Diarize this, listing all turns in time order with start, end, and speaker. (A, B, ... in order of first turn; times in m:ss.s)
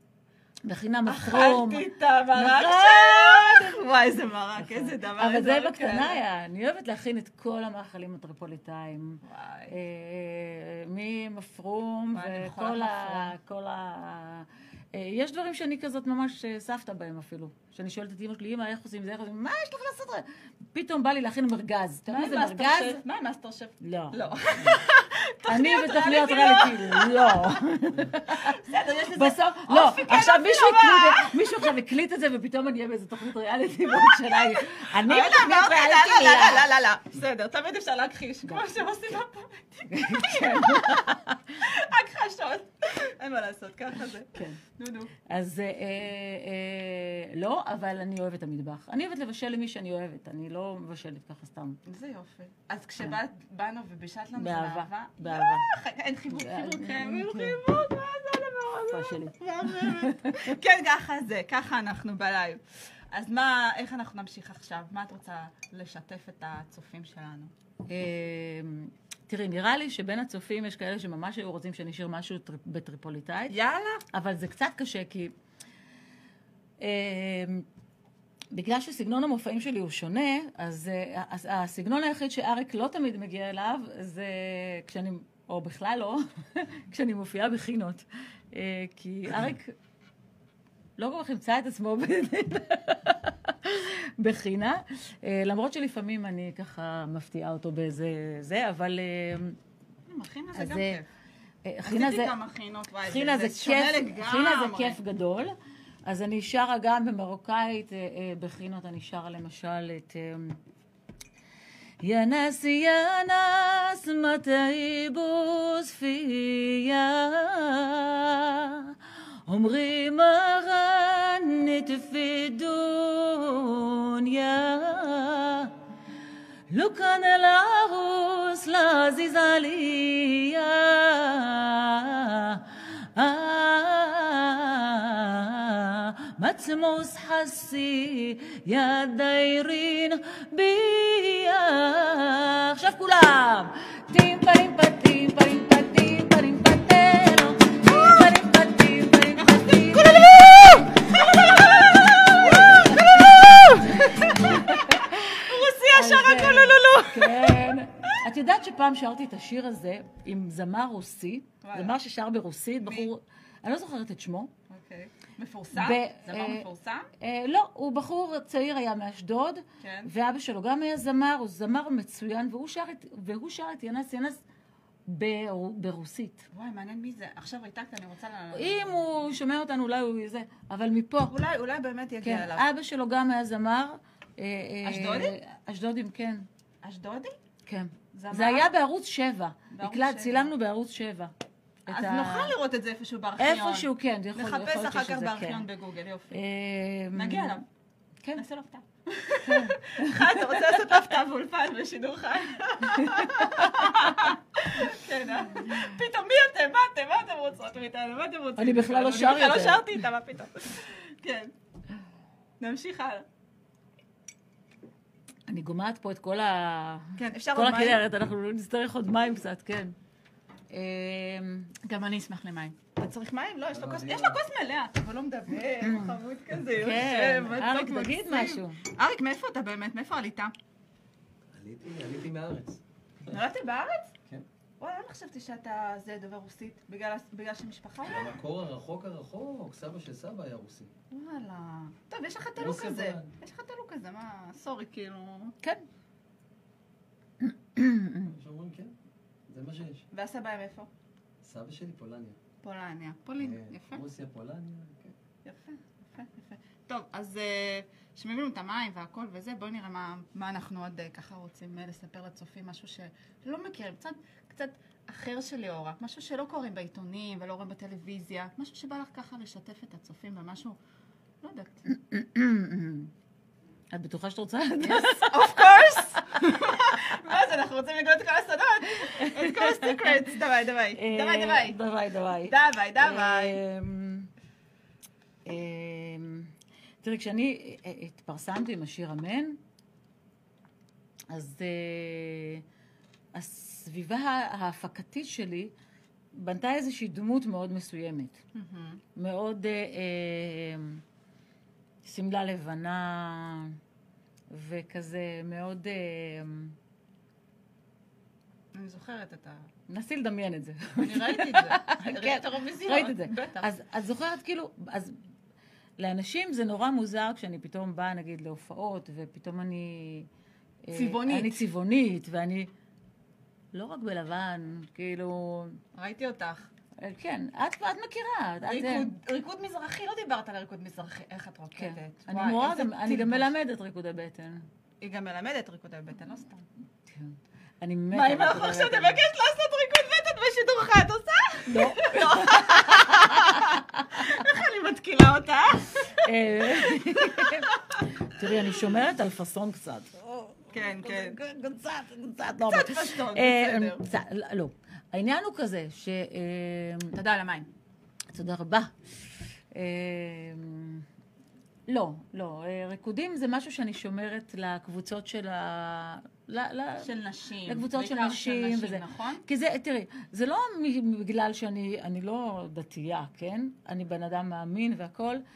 0:00.6-0:03.8 A
0:01.0-0:06.2 B
0:04.6-0:23.0 A
0:09.2-0:09.8 B
0:12.1-0:13.3 B
0:22.1-0:27.6 B
0:23.8-0:24.8 A
0:25.5-0:36.7 A
0:28.3-0:31.4 B
0:34.0-0:45.1 B
0:39.9-0:41.5 A
0:44.3-0:44.6 A
0:45.2-0:51.8 A
0:51.8-1:07.5 B
0:54.4-0:55.7 A
0:56.3-0:57.6 A
0:58.9-1:00.6 A
1:07.9-1:13.6 A
1:13.5-1:14.0 B
1:14.1-1:15.3 A
1:16.8-1:17.6 A
1:18.5-1:29.7 A
1:31.0-1:39.6 A
1:40.1-1:41.1 B
1:40.5-1:41.0 A
1:41.6-1:42.3 A
1:41.8-1:45.0 B
1:43.0-1:45.5 A
1:46.0-1:50.6 A
1:52.0-1:59.0 A
1:59.5-2:05.7 A
2:06.7-2:44.5 A
2:27.9-2:28.2 B
2:29.4-2:37.6 B
2:41.6-2:41.9 B
2:44.7-2:47.1 B
2:45.7-2:46.6 A
2:47.2-2:54.4 A
2:49.8-2:50.1 B
2:55.1-2:56.4 A
2:56.5-2:58.9 B
2:58.5-3:01.3 A
3:01.3-3:02.6 B
3:02.2-3:06.4 A
3:04.8-3:05.3 B
3:06.8-3:07.3 B
3:07.6-3:11.3 A
3:08.1-3:08.7 B
3:09.7-3:10.5 B
3:11.8-3:12.5 A
3:11.9-3:16.4 B
3:13.4-3:15.6 A
3:16.3-3:17.6 A
3:17.1-3:17.6 B
3:18.3-3:31.5 B
3:19.4-3:20.8 A
3:22.8-3:24.2 A
3:28.6-3:29.9 A
3:32.6-3:33.2 B
3:35.5-3:39.9 A
3:37.2-3:38.0 B
3:40.7-3:42.0 A
3:42.0-3:50.5 B
3:43.7-3:44.4 C
3:45.8-3:46.2 A
3:46.7-3:48.8 A
3:51.5-3:53.4 C
3:53.3-3:54.1 B
3:54.8-3:58.3 B
3:58.1-4:00.9 C
4:01.1-4:05.5 B
4:02.6-4:03.3 C
4:07.4-4:08.3 A
4:08.2-4:08.9 C
4:09.5-4:10.1 C
4:10.1-4:10.9 B
4:11.4-4:12.4 C
4:12.6-4:14.0 B
4:13.4-4:15.1 C
4:15.4-4:30.8 B
4:31.4-4:31.8 B
4:31.9-4:33.1 A
4:33.9-4:37.0 A
4:34.8-4:41.8 B
4:39.1-4:40.2 A
4:41.0-4:44.3 A
4:42.4-4:43.6 B
4:45.4-4:49.6 A
4:51.3-4:52.6 A
4:53.3-4:55.7 A
4:56.3-4:58.4 A
4:58.5-4:59.0 B
4:59.1-5:01.0 A
5:02.0-5:03.8 A
5:04.5-5:06.7 A
5:08.7-5:09.6 B
5:09.9-5:15.2 A
5:11.0-5:13.7 B
5:16.0-5:20.3 A
5:20.8-5:22.7 A
5:20.9-5:21.6 B
5:23.7-5:25.8 A
5:25.9-5:26.7 B
5:27.0-5:29.1 A
5:28.7-5:33.5 B
5:31.8-5:34.7 A
5:35.0-5:36.6 B
5:37.0-5:39.2 A
5:38.1-5:48.0 B
5:41.7-5:44.4 A
5:46.2-5:57.1 A
5:50.7-5:51.4 B
5:52.7-5:54.0 B
5:57.1-5:57.7 B
5:58.3-6:01.0 A
6:01.9-6:07.1 A
6:07.0-6:09.4 B
6:07.6-6:15.4 A